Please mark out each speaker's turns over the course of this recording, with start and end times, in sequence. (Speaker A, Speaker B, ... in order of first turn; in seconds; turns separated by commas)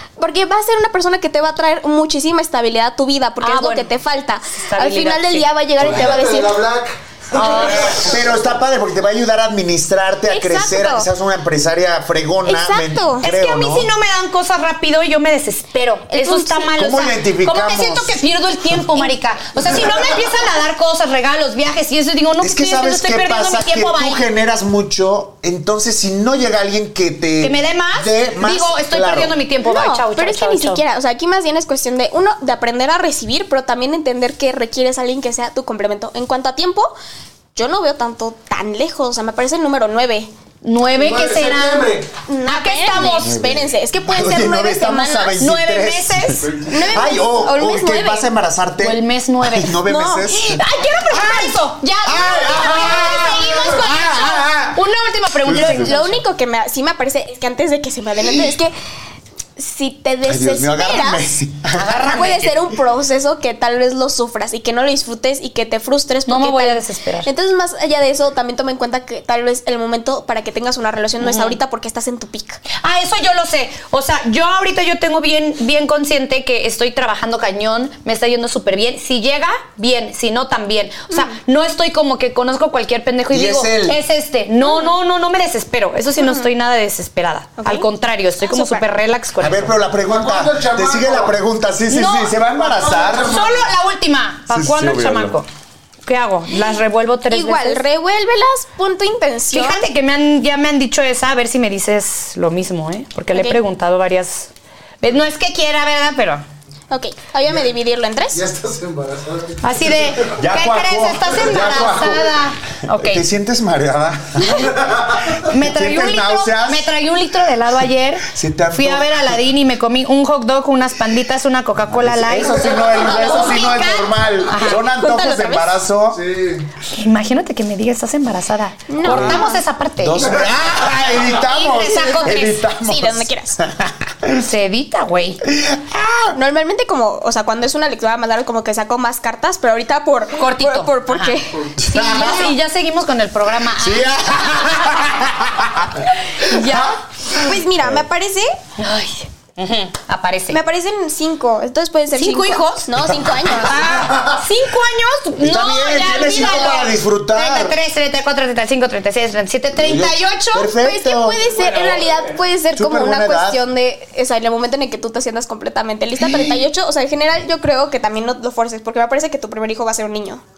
Speaker A: 0.2-6.6, Speaker B: 3.4-3.9, Speaker B: 4.6-5.5, Speaker C: 5.8-8.1, Speaker B: 7.3-8.1, Speaker D: 7.8-13.9, Speaker A: 10.3-11.1, Speaker A: 12.4-13.3, Speaker B: 13.2-24.2, Speaker A: 16.1-16.7, Speaker D: 16.7-18.2, Speaker D: 22.4-29.4, Speaker B: 27.4-30.8, Speaker A: 29.6-36.9, Speaker A: 37.5-40.3, Speaker B: 40.6-41.9, Speaker C: 40.9-42.1, Speaker A: 42.3-45.4, Speaker B: 42.5-43.3, Speaker D: 42.9-50.6, Speaker B: 45.4-46.4, Speaker A: 46.7-48.3, Speaker B: 48.8-56.1, Speaker A: 49.9-50.3, Speaker D: 51.1-51.5, Speaker D: 52.0-54.8, Speaker D: 55.4-56.1, Speaker A: 55.5-58.7, Speaker A: 59.6-61.3, Speaker D: 60.2-62.1, Speaker B: 61.7-62.5, Speaker A: 62.0-72.6, Speaker B: 66.3-67.3, Speaker B: 71.2-71.6, Speaker B: 72.8-89.7, Speaker D: 83.3-84.0, Speaker A: 84.6-84.9, Speaker A: 86.2-86.5, Speaker A: 87.6-87.9, Speaker A: 88.4-88.8, Speaker D: 89.4-93.4, Speaker C: 90.1-91.3, Speaker B: 91.9-92.3, Speaker C: 92.6-93.6, Speaker B: 93.2-95.5, Speaker D: 94.5-95.4, Speaker B: 96.0-97.8, Speaker A: 97.3-99.8, Speaker B: 99.5-104.5, Speaker A: 103.3-103.6, Speaker B: 105.0-106.4, Speaker A: 106.9-108.4, Speaker C: 108.3-110.1, Speaker B: 109.6-113.2, Speaker D: 110.4-114.8, Speaker D: 115.4-116.9, Speaker B: 115.4-123.8, Speaker D: 118.2-119.4, Speaker D: 121.9-126.2, Speaker A: 123.1-125.8, Speaker B: 124.5-124.8, Speaker C: 126.1-126.6, Speaker B: 126.9-130.3, Speaker A: 128.9-129.6, Speaker D: 129.0-129.4, Speaker D: 130.0-134.4, Speaker B: 131.4-132.6, Speaker A: 131.8-133.6, Speaker B: 134.3-135.4, Speaker D: 135.4-136.3, Speaker A: 136.3-141.7, Speaker B: 140.4-144.7, Speaker D: 141.8-142.5, Speaker D: 143.8-146.9, Speaker B: 146.3-147.0, Speaker A: 147.3-148.5, Speaker B: 148.8-150.6, Speaker A: 150.5-153.9, Speaker B: 152.1-152.9, Speaker B: 153.6-160.7, Speaker D: 153.7-154.4, Speaker D: 155.4-157.8, Speaker D: 159.7-161.4, Speaker A: 160.8-170.4, Speaker D: 162.7-163.6, Speaker D: 166.2-166.6